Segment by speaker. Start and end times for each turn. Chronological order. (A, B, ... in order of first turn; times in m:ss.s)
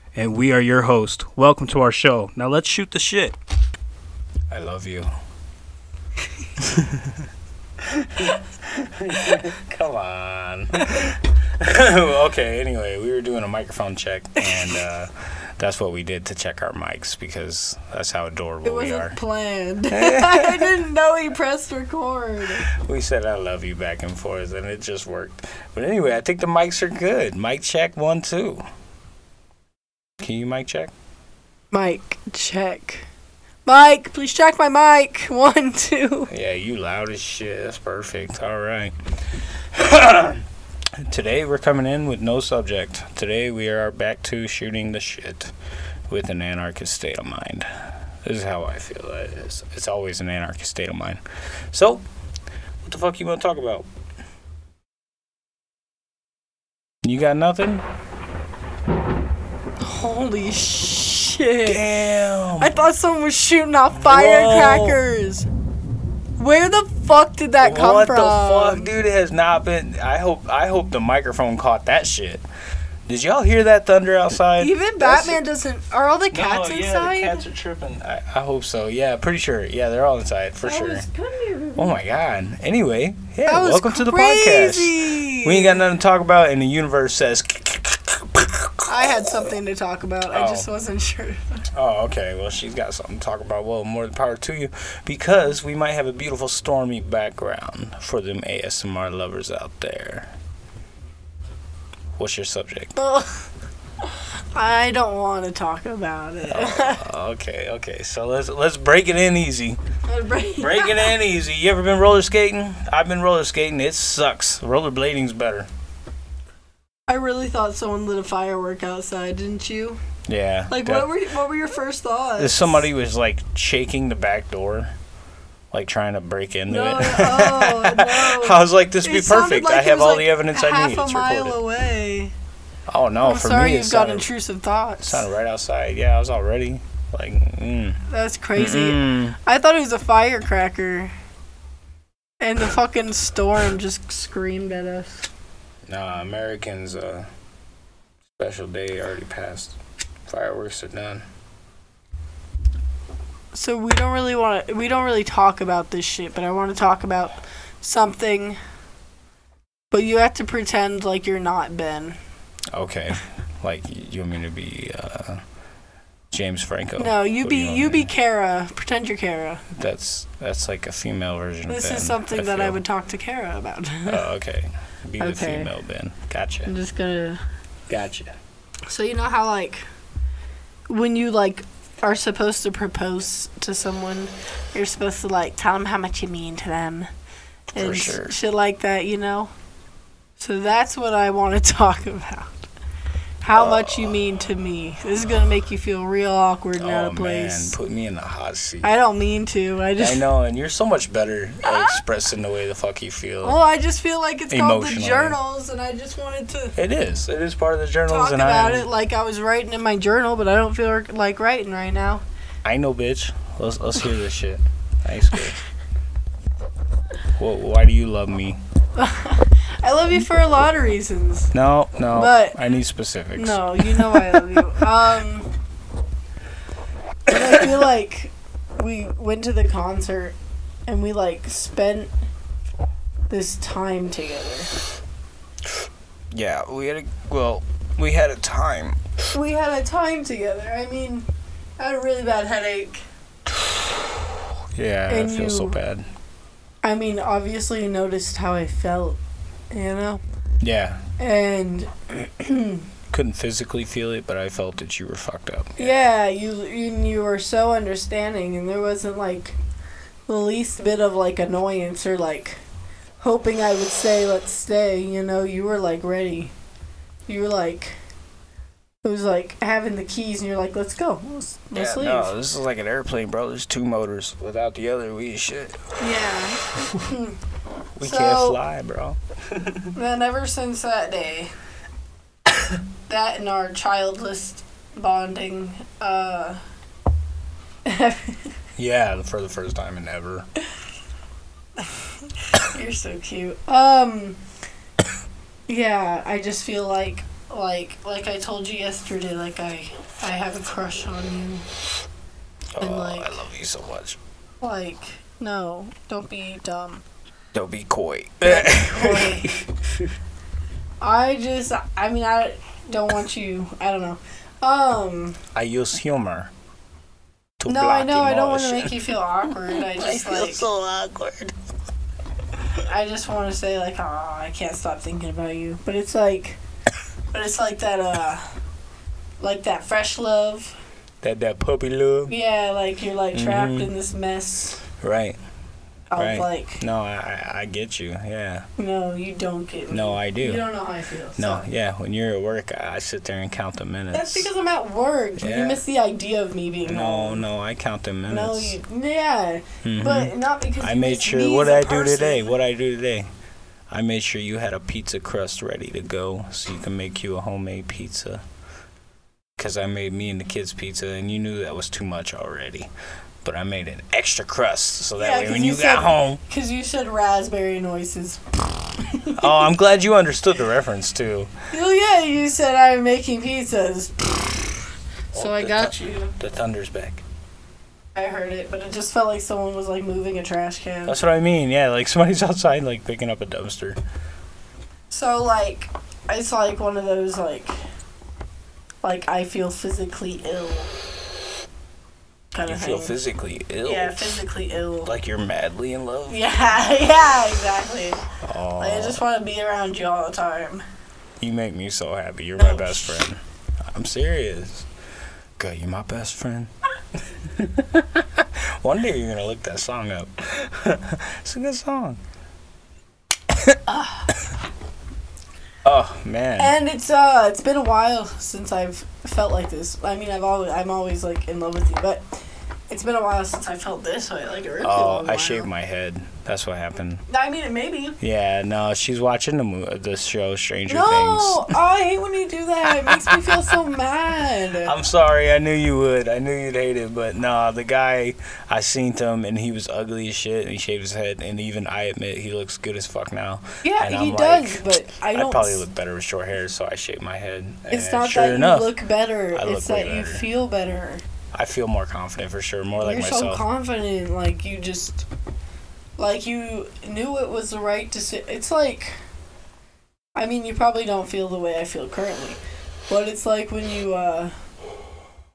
0:00.2-0:03.4 A
0:04.5-0:05.1 A
0:06.6-0:07.3 A
0:07.8-0:19.2 A
0:14.4-0:14.8 B
0:18.6-0:22.7 B
0:19.9-0:20.8 A
0:22.7-0:28.6 A
0:30.2-0:30.9 A
0:31.7-0:33.1 B
0:33.7-0:36.3 B
0:36.3-0:40.4 A
0:41.0-0:45.5 A
0:46.1-0:52.0 A
0:52.8-0:53.9 A
0:57.0-0:57.8 A
0:59.8-1:01.9 B
1:01.7-1:02.7 A
1:02.6-1:05.5 B
1:03.9-1:05.0 A
1:06.4-1:08.9 B
1:07.6-1:12.4 A
1:13.1-1:15.4 A
1:14.6-1:17.4 B
1:16.3-1:21.1 A
1:20.6-1:22.0 B
1:21.8-1:29.2 A
1:23.5-1:25.8 B
1:28.9-1:31.6 B
1:30.3-1:30.7 A
1:31.7-1:40.3 A
1:42.2-1:42.9 A
1:43.0-1:43.5 B
1:44.0-1:47.0 B
1:46.5-1:49.8 A
1:50.1-1:51.1 B
1:50.6-1:55.7 A
1:57.1-2:00.0 B
2:00.3-2:01.1 A
2:00.7-2:02.8 B
2:02.4-2:04.9 A
2:05.7-2:11.6 A
2:06.7-2:12.3 B
2:12.9-2:14.3 A
2:13.2-2:15.3 B
2:15.0-2:18.0 A
2:18.1-2:21.1 B
2:18.6-2:19.4 A
2:22.4-2:25.3 B
2:25.9-2:27.3 A
2:28.4-2:31.2 A
2:33.5-2:38.6 B
2:39.9-2:42.2 B
2:42.7-2:45.4 A
2:46.3-2:48.1 A
2:47.0-2:49.6 B
2:49.7-2:52.8 A
2:51.7-2:54.2 B
2:54.1-2:56.7 A
2:55.2-2:55.7 B
2:56.7-2:57.4 B
2:57.9-2:58.4 A
2:58.9-2:59.8 B
3:00.9-3:07.1 B
3:07.8-3:08.4 A
3:07.8-3:09.5 B
3:10.4-3:12.7 B
3:13.4-3:17.8 B
3:13.5-3:14.2 A
3:16.8-3:18.9 A
3:18.8-3:20.2 B
3:20.0-3:23.6 A
3:21.6-3:22.0 B
3:23.4-3:26.8 B
3:24.5-3:25.4 A
3:26.8-3:28.9 A
3:28.1-3:32.2 B
3:32.6-3:35.6 A
3:37.4-3:38.6 A
3:39.0-3:41.5 B
3:41.5-3:44.6 A
3:42.1-3:42.6 B
3:43.4-3:45.5 B
3:47.3-3:50.4 B
3:50.9-3:52.1 B
3:53.3-3:54.7 B
3:56.3-3:59.0 A
3:59.3-4:01.3 B
4:01.8-4:03.0 B
4:04.8-4:06.1 A
4:05.1-4:05.8 B
4:06.8-4:09.2 B
4:09.7-4:10.2 B
4:10.6-4:11.0 A
4:11.2-4:12.9 B
4:13.1-4:16.0 A
4:15.8-4:19.6 B
4:20.3-4:22.6 B
4:23.2-4:26.5 B
4:27.3-4:28.0 B
4:29.0-4:32.3 B
4:31.8-4:35.8 A
4:36.0-4:37.4 B
4:38.0-4:39.9 A
4:38.0-4:38.6 B
4:40.0-4:41.5 B
4:43.1-4:46.6 B
4:47.8-4:48.5 B
4:48.8-4:50.5 A
4:51.8-4:54.4 B
4:55.7-5:01.7 B
5:02.8-5:04.2 A
5:02.8-5:03.4 B
5:04.6-5:07.0 B
5:07.5-5:10.1 A
5:08.4-5:09.6 B
5:11.0-5:15.4 B
5:15.6-5:16.5 A
5:17.6-5:18.9 A
5:17.7-5:20.7 B
5:19.7-5:21.5 A
5:22.8-5:26.6 B
5:27.3-5:28.5 B
5:29.4-5:30.8 B
5:31.2-5:32.3 A
5:32.3-5:34.8 B
5:33.3-5:33.9 A
5:35.0-5:35.4 A
5:36.1-5:36.8 B
5:36.2-5:38.7 A
5:38.8-5:41.7 B
5:39.9-5:40.6 A
5:41.4-5:44.5 A
5:44.1-5:47.4 B
5:45.4-5:45.8 A
5:46.8-5:48.8 A
5:48.3-5:52.6 B
5:49.8-5:53.3 A
5:53.9-5:58.4 A
5:59.6-6:02.9 A
6:03.4-6:06.4 A
6:05.2-6:09.7 B
6:09.4-6:11.5 A
6:11.7-6:14.8 B
6:15.3-6:16.4 B
6:15.3-6:17.2 A
6:18.2-6:21.2 B
6:21.1-6:24.0 A
6:25.1-6:27.8 B
6:29.0-6:30.9 B
6:32.5-6:33.2 B
6:32.7-6:34.4 A
6:33.8-6:35.1 B
6:35.0-6:36.5 A
6:36.3-6:40.8 B
6:38.4-6:39.2 A
6:41.4-6:44.9 A
6:42.6-6:43.2 B
6:45.6-6:46.7 A
6:47.3-6:52.2 A
6:53.5-6:53.8 A
6:53.9-6:54.4 B
6:55.8-6:56.8 A
6:56.6-7:02.2 B
7:02.9-7:05.7 B
7:04.8-7:07.2 A
7:07.3-7:08.2 B
7:08.2-7:11.8 A
7:10.9-7:14.9 B
7:13.0-7:13.6 A
7:14.8-7:29.0 A
7:23.8-7:25.8 B
7:27.9-7:31.2 B
7:29.5-7:30.4 A
7:31.5-7:33.6 A
7:33.0-7:35.2 B
7:36.2-7:39.1 B
7:40.4-7:44.5 B